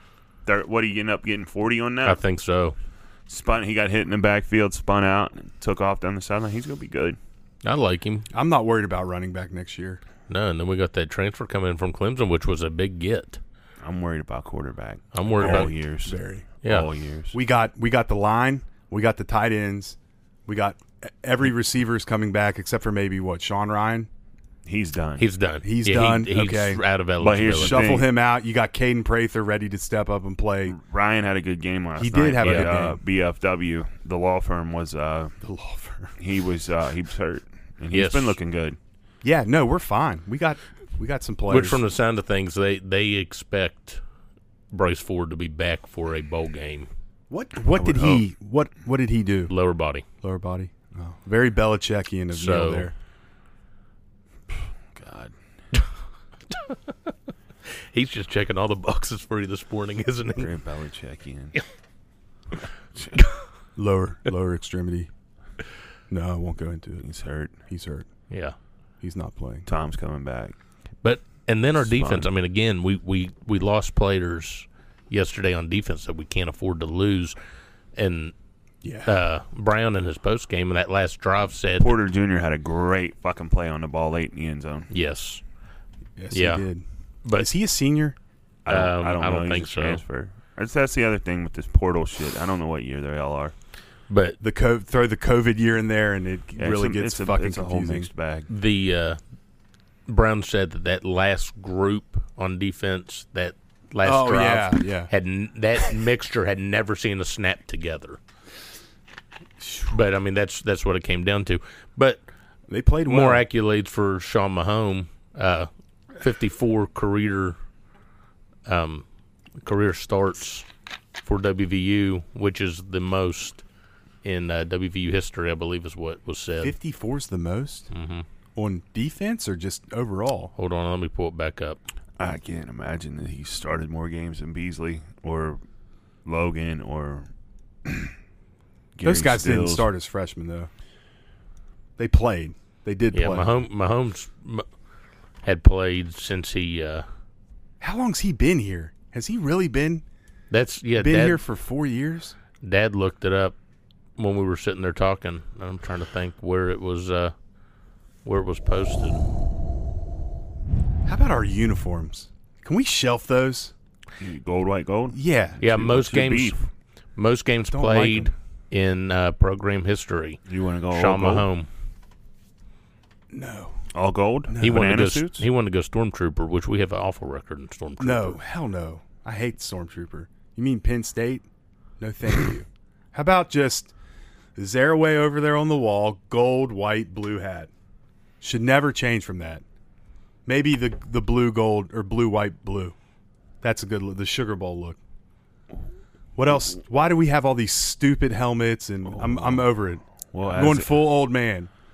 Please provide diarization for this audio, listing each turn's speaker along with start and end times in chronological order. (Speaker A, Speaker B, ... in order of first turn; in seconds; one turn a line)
Speaker A: 0.5-2.2
Speaker B: 2.0-2.8
Speaker A: 3.3-7.2
Speaker B: 7.6-8.3
Speaker C: 8.3-10.0
Speaker B: 10.3-13.4
Speaker A: 13.8-17.4
Speaker B: 15.1-15.7
Speaker C: 15.4-16.5
Speaker B: 16.6-16.9
Speaker C: 17.3-24.1
Speaker A: 24.7-25.2
Speaker B: 25.2-27.9
Speaker C: 25.6-26.8
Speaker A: 27.2-28.1
Speaker C: 27.5-30.8
Speaker A: 30.7-35.4
Speaker C: 32.0-33.0
Speaker B: 32.4-32.7
Speaker C: 35.4-36.1
Speaker A: 36.2-38.8
Speaker B: 37.9-38.4
Speaker C: 39.2-41.8
Speaker B: 41.5-44.0
Speaker B: 44.7-46.9
Speaker C: 47.3-49.5
Speaker B: 49.5-50.0
Speaker C: 50.2-52.9
Speaker B: 52.3-52.9
Speaker A: 54.9-55.3
Speaker B: 56.5-57.1
Speaker B: 57.9-60.5
Speaker A: 60.4-61.6
Speaker C: 63.8-65.1
Speaker C: 66.1-67.1
Speaker A: 67.0-67.5
Speaker C: 67.7-68.1
Speaker B: 68.3-68.5
Speaker C: 69.0-69.7
Speaker A: 69.7-70.5
Speaker B: 71.0-77.4
Speaker A: 71.8-72.3
Speaker B: 78.0-78.3
Speaker C: 78.8-79.1
Speaker B: 79.0-81.9
Speaker A: 81.8-84.9
Speaker B: 84.9-85.4
Speaker C: 86.2-88.2
Speaker B: 86.3-86.7
Speaker B: 87.2-87.5
Speaker A: 88.7-93.5
Speaker B: 88.7-90.0
Speaker B: 94.1-94.4
Speaker C: 94.4-98.1
Speaker A: 96.6-98.5
Speaker B: 98.5-99.2
Speaker B: 100.1-108.2
Speaker C: 104.0-105.1
Speaker C: 109.6-109.9
Speaker B: 109.9-112.2
Speaker C: 112.7-113.5
Speaker B: 113.1-115.7
Speaker B: 116.2-117.6
Speaker B: 118.7-119.0
Speaker B: 119.6-120.7
Speaker B: 121.2-123.6
Speaker B: 124.2-126.8
Speaker C: 126.6-127.9
Speaker B: 127.9-128.2
Speaker C: 128.6-130.5
Speaker B: 130.6-131.8
Speaker A: 132.2-135.6
Speaker A: 136.2-137.3
Speaker A: 137.9-138.1
Speaker A: 139.0-139.9
Speaker C: 139.0-140.7
Speaker C: 142.0-143.5
Speaker B: 143.1-144.7
Speaker B: 145.4-147.1
Speaker C: 147.8-150.0
Speaker B: 150.5-151.4
Speaker C: 150.9-152.4
Speaker B: 152.6-153.6
Speaker B: 154.2-157.3
Speaker B: 158.2-159.2
Speaker C: 161.1-163.7
Speaker A: 164.2-166.6
Speaker C: 165.1-165.6
Speaker B: 165.6-166.6
Speaker B: 167.2-170.4
Speaker C: 167.7-168.3
Speaker A: 170.5-171.5
Speaker B: 170.9-171.7
Speaker C: 173.3-173.8
Speaker A: 173.9-175.5
Speaker C: 174.5-174.9
Speaker B: 174.6-178.4
Speaker C: 178.0-181.5
Speaker C: 182.0-183.9
Speaker C: 184.6-187.7
Speaker C: 188.4-189.6
Speaker C: 190.5-192.9
Speaker C: 193.6-195.0
Speaker C: 196.4-201.7
Speaker A: 199.1-199.7
Speaker A: 200.3-200.9